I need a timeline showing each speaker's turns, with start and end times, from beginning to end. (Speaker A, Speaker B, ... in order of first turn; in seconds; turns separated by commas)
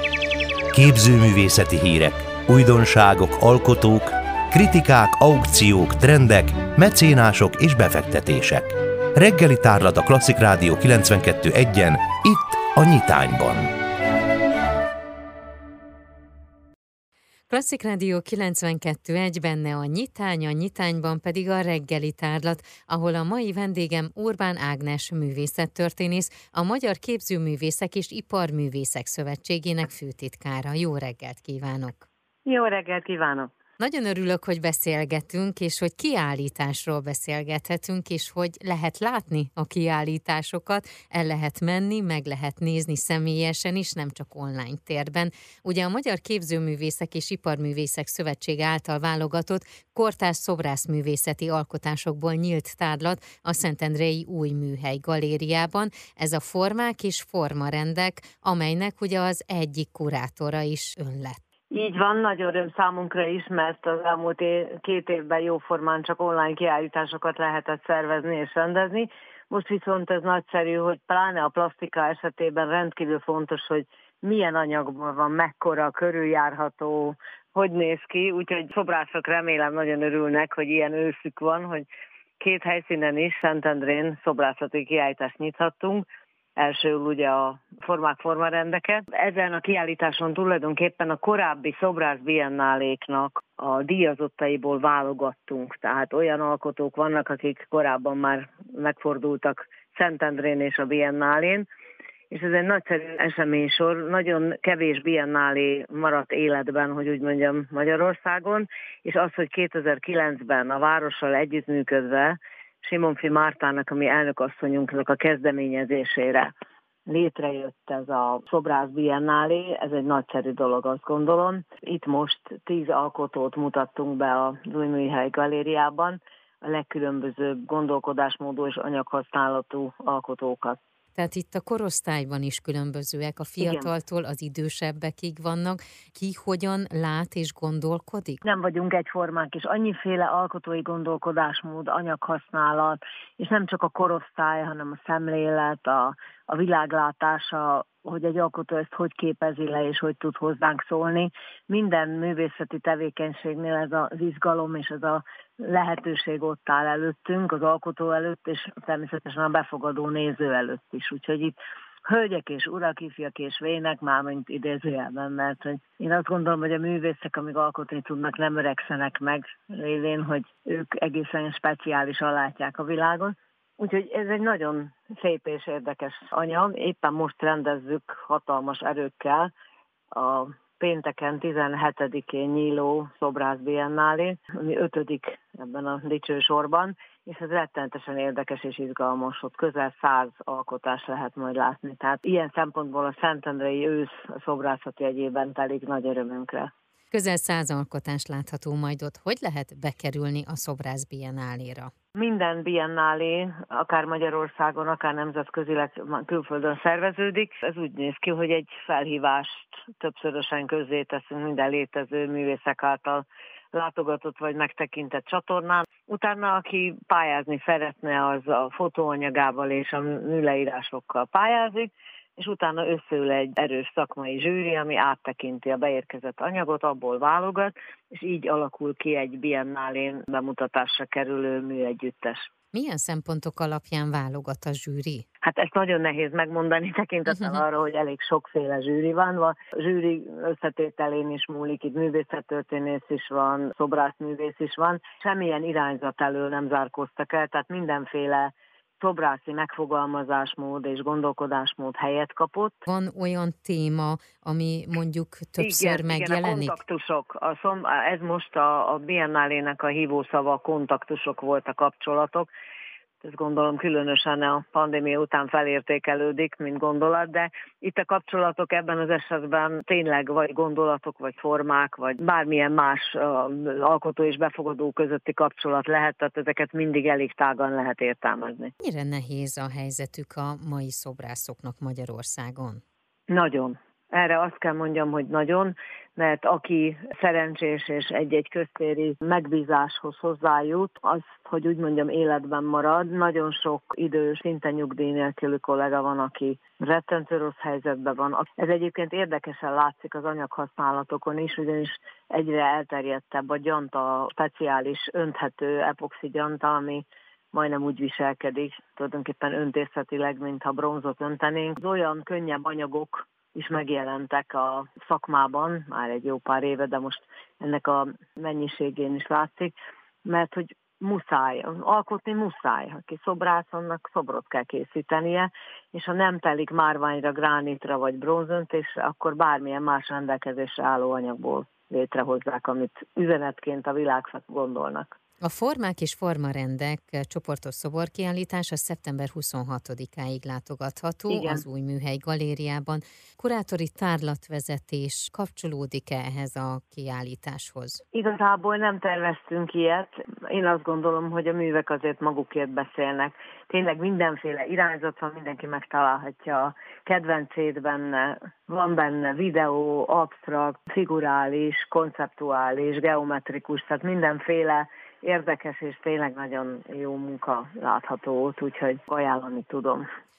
Speaker A: 0.7-13.7, Speaker B: 17.5-32.1, Speaker C: 32.5-33.5, Speaker B: 33.8-61.4, Speaker C: 61.7-81.9, Speaker C: 82.4-101.7, Speaker C: 102.3-116.5, Speaker C: 117.1-130.8, Speaker B: 131.1-138.4, Speaker C: 133.6-133.9, Speaker C: 138.4-179.5, Speaker C: 180.1-196.7, Speaker B: 197.1-201.9, Speaker C: 202.1-232.5, Speaker B: 232.7-235.2, Speaker C: 235.4-252.8, Speaker B: 252.8-256.8, Speaker C: 255.6-262.5, Speaker C: 263.2-278.7, Speaker B: 278.8-282.8, Speaker C: 283.3-319.7, Speaker C: 320.2-335.1, Speaker B: 335.4-348.0, Speaker C: 341.3-341.6, Speaker C: 348.1-370.0